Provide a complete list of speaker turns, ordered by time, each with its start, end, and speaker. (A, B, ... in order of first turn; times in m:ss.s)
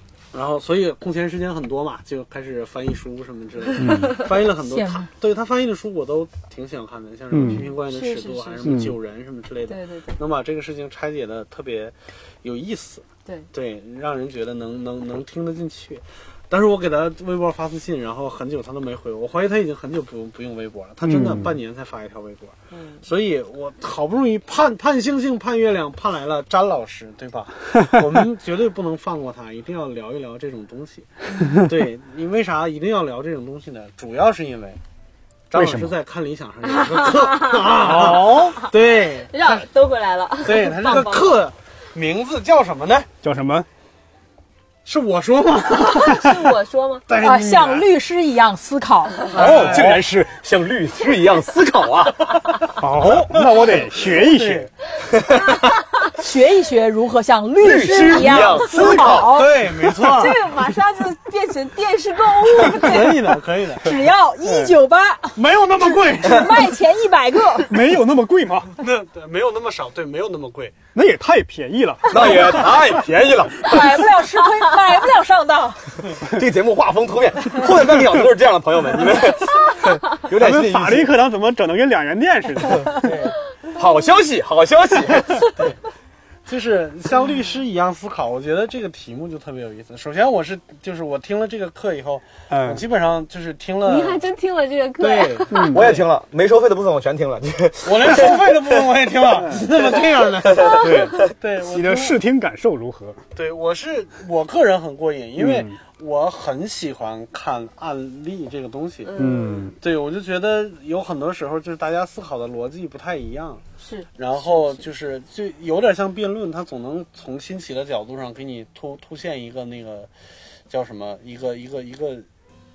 0:00.3-0:31.1 A
0:03.8-0:04.2 B
0:03.8-0:04.3 C
0:04.7-0:05.1 D
0:07.3-0:07.6 B
0:07.4-0:08.9 C
0:08.6-0:08.9 B
0:09.6-0:10.2 C
0:21.0-0:21.6 B
0:22.7-0:23.1 C
0:31.3-0:31.6 C
0:31.6-0:34.8 A
0:35.5-0:39.7 A
0:35.5-0:36.0 B
0:36.6-0:38.7 C
0:37.8-0:38.6 B
0:39.3-0:41.4 C
0:40.4-0:43.1 A
0:43.2-0:43.7 B
0:44.8-0:46.4 A
0:45.8-0:47.1 C
0:47.1-0:47.9 A
0:47.2-0:49.2 D
0:49.3-0:50.0 A
0:49.4-0:52.7 E
0:49.5-0:50.0 B
0:52.8-0:54.7 B
0:54.0-0:54.7 A
0:55.1-0:55.8 E
0:56.1-0:59.5 D
0:57.6-0:59.3 E
0:58.1-0:58.6 C
0:59.2-1:00.4 A
1:00.0-1:03.3 C
1:02.7-1:03.9 A
1:03.8-1:05.4 D
1:04.4-1:04.7 B
1:05.4-1:06.5 A
1:06.2-1:07.7 D
1:07.6-1:08.8 B
1:08.8-1:10.7 A
1:10.9-1:12.8 B
1:12.1-1:14.0 E
1:13.6-1:15.9 D
1:16.2-1:21.1 E
1:20.3-1:23.1 B
1:23.0-1:23.4 A
1:23.7-1:25.5 E
1:26.4-1:34.2 A
1:27.2-1:27.4 C
1:32.5-1:32.8 B
1:33.8-1:35.8 C
1:35.0-1:35.9 A
1:35.5-1:35.9 B
1:35.7-1:38.8 E
1:37.8-1:42.2 A
1:40.8-1:43.2 B
1:43.3-1:49.1 A
1:45.4-1:45.7 B
1:49.0-1:49.7 C
1:49.2-1:49.8 B
1:49.8-1:53.6 A
1:53.8-1:54.9 C
1:54.2-2:00.1 A
2:00.7-2:02.2 A